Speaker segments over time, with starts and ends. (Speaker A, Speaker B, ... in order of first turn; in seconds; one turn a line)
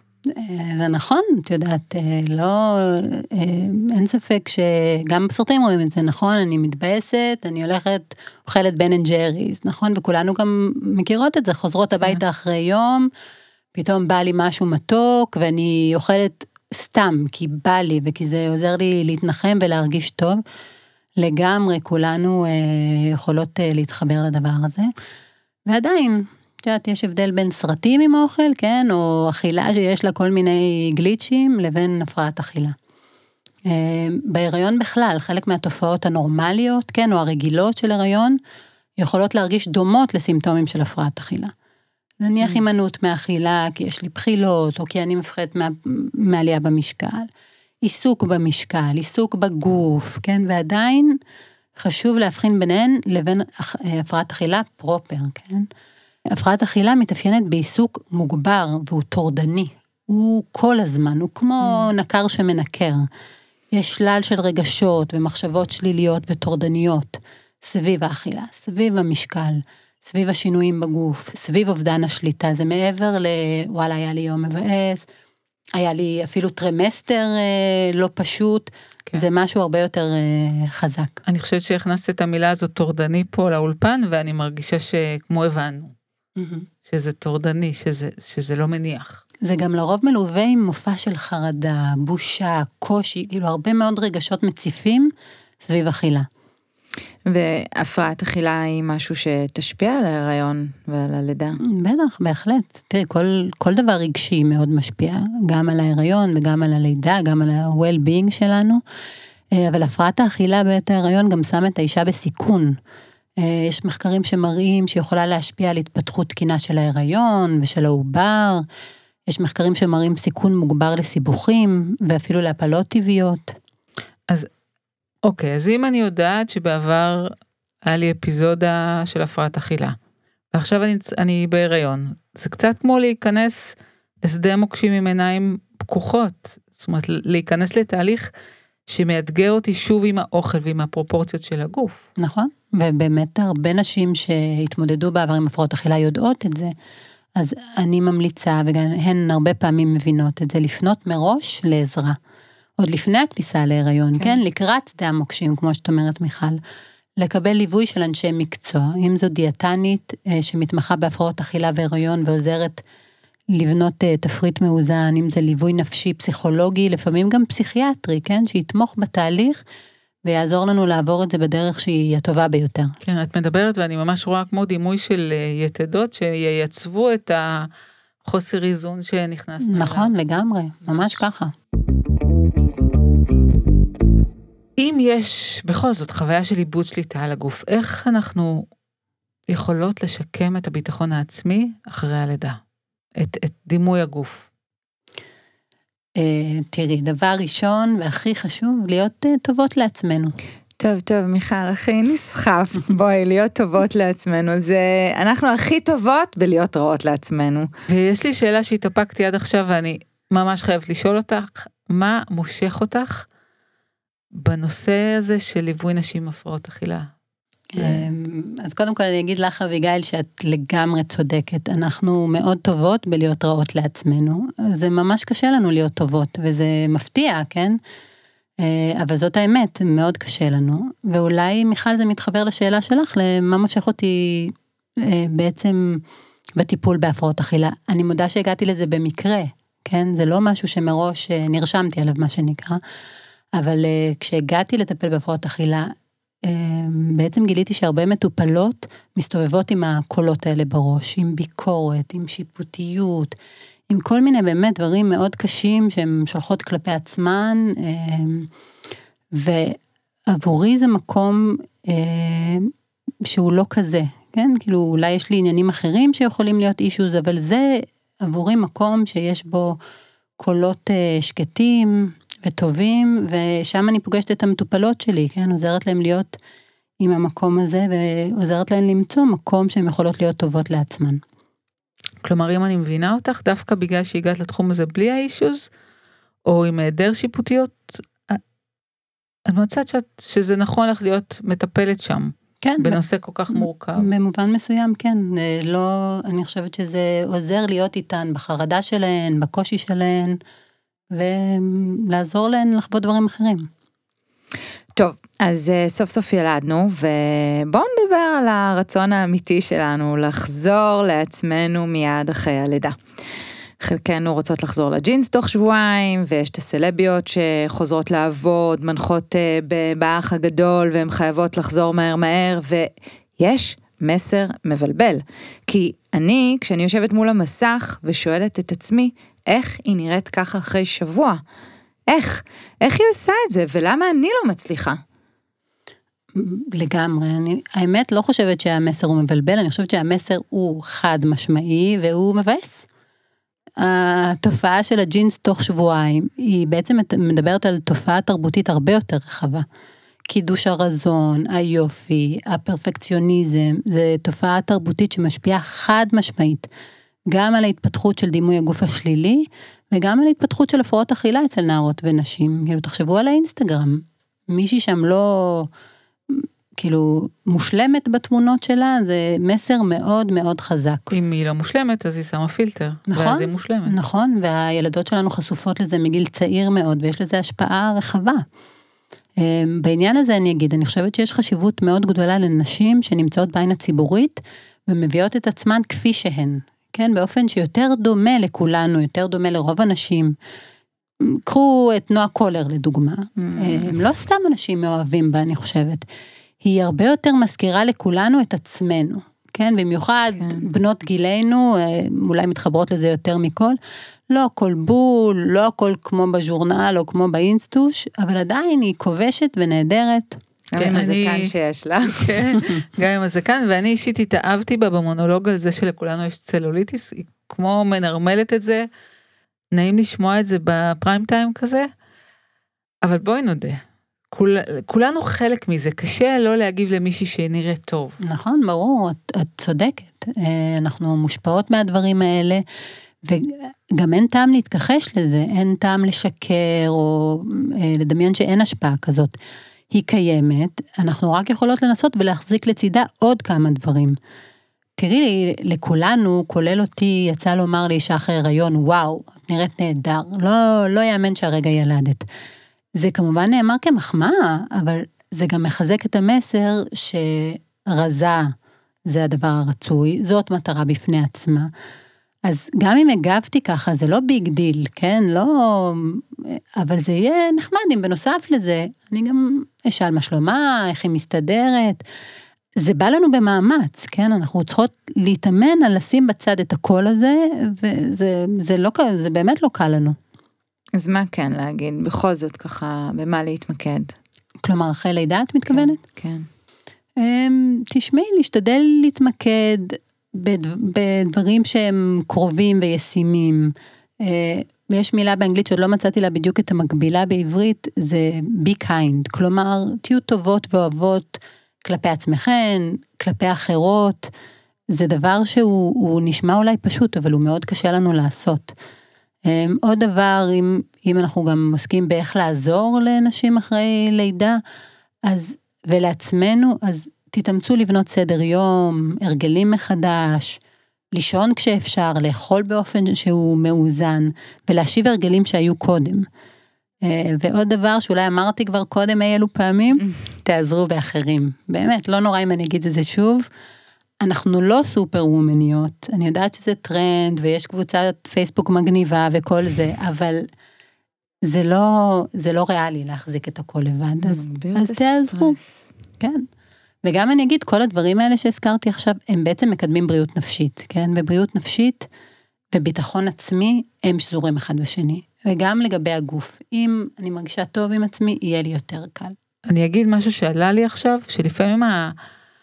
Speaker A: 0.3-13.1
Speaker A: 13.8-20.4
Speaker A: 21.2-24.9
Speaker A: 25.7-32.8
Speaker A: 33.7-38.4
Speaker A: 39.0-41.5
Speaker A: 42.2-47.3
Speaker A: 47.8-51.2
Speaker A: 51.8-55.7
Speaker A: 56.3-63.1
Speaker A: 63.7-75.1
Speaker A: 75.8-81.2
Speaker B: 81.3-86.0
Speaker A: 86.4-86.7
Speaker B: 86.8-89.2
Speaker A: 89.4-96.3
Speaker C: 97.3-101.6
Speaker A: 101.7-108.8
Speaker A: 109.5-112.8
Speaker A: 113.4-118.6
Speaker A: 119.3-123.6
Speaker B: 125.2-130.0
Speaker B: 130.5-138.3
Speaker B: 138.9-142.1
Speaker A: 142.2-146.7
Speaker A: 147.4-152.2
Speaker A: 152.8-156.6
Speaker A: 157.2-162.8
Speaker A: 163.5-169.6
Speaker A: 170.2-172.9
Speaker B: 173.0-177.7
Speaker B: 178.2-180.1
Speaker A: 179.6-181.5
Speaker B: 184.8-188.7
Speaker B: 189.5-192.6
Speaker B: 193.2-194.5
Speaker A: 196.2-200.3
Speaker C: 200.8-207.7
Speaker B: 207.9-213.3
Speaker B: 214.3-217.1
Speaker A: 217.7-227.8
Speaker B: 217.8-218.1
Speaker A: 228.6-236.0
Speaker A: 236.6-242.8
Speaker A: 243.6-245.9
Speaker A: 246.4-253.3
Speaker A: 253.9-258.5
Speaker A: 259.3-262.7
Speaker A: 263.2-269.8
Speaker A: 270.4-276.4
Speaker A: 277.0-281.2
Speaker B: 282.2-285.7
Speaker B: 286.5-288.4
Speaker B: 289.5-294.1
Speaker A: 292.6-300.4
Speaker A: 301.1-303.7
Speaker C: 305.0-313.0
Speaker C: 313.8-331.4
Speaker C: 332.1-335.0
Speaker A: 336.4-342.9
Speaker A: 343.8-349.6
Speaker A: 350.3-356.7
Speaker A: 357.3-365.7
Speaker A: 366.3-371.1
Speaker B: 371.1-374.0
Speaker A: 373.1-378.4
Speaker A: 379.4-390.3
Speaker A: 391.5-396.1
Speaker C: 393.4-393.9
Speaker A: 396.6-403.8
Speaker C: 400.4-400.6
Speaker A: 404.3-410.4
Speaker C: 410.7-412.5
Speaker B: 410.8-411.5
Speaker B: 412.2-418.9
Speaker B: 419.7-421.9
Speaker B: 423.0-428.2
Speaker A: 428.2-432.6
Speaker A: 433.3-439.4
Speaker A: 439.9-444.2
Speaker A: 445.0-452.3
Speaker A: 453.0-458.5
Speaker A: 459.1-461.7
Speaker A: 462.5-472.0
Speaker A: 472.8-480.2
Speaker C: 481.0-484.1
Speaker A: 484.6-486.0
Speaker C: 485.7-486.5
Speaker A: 487.2-504.3
Speaker A: 504.9-508.7
Speaker A: 509.5-514.6
Speaker A: 515.3-520.6
Speaker A: 521.1-526.3
Speaker A: 527.0-533.5
Speaker A: 534.2-540.5
Speaker A: 541.5-545.6
Speaker C: 544.2-545.9
Speaker A: 546.2-546.5
Speaker A: 547.0-552.1
Speaker A: 552.7-559.4
Speaker B: 559.7-562.1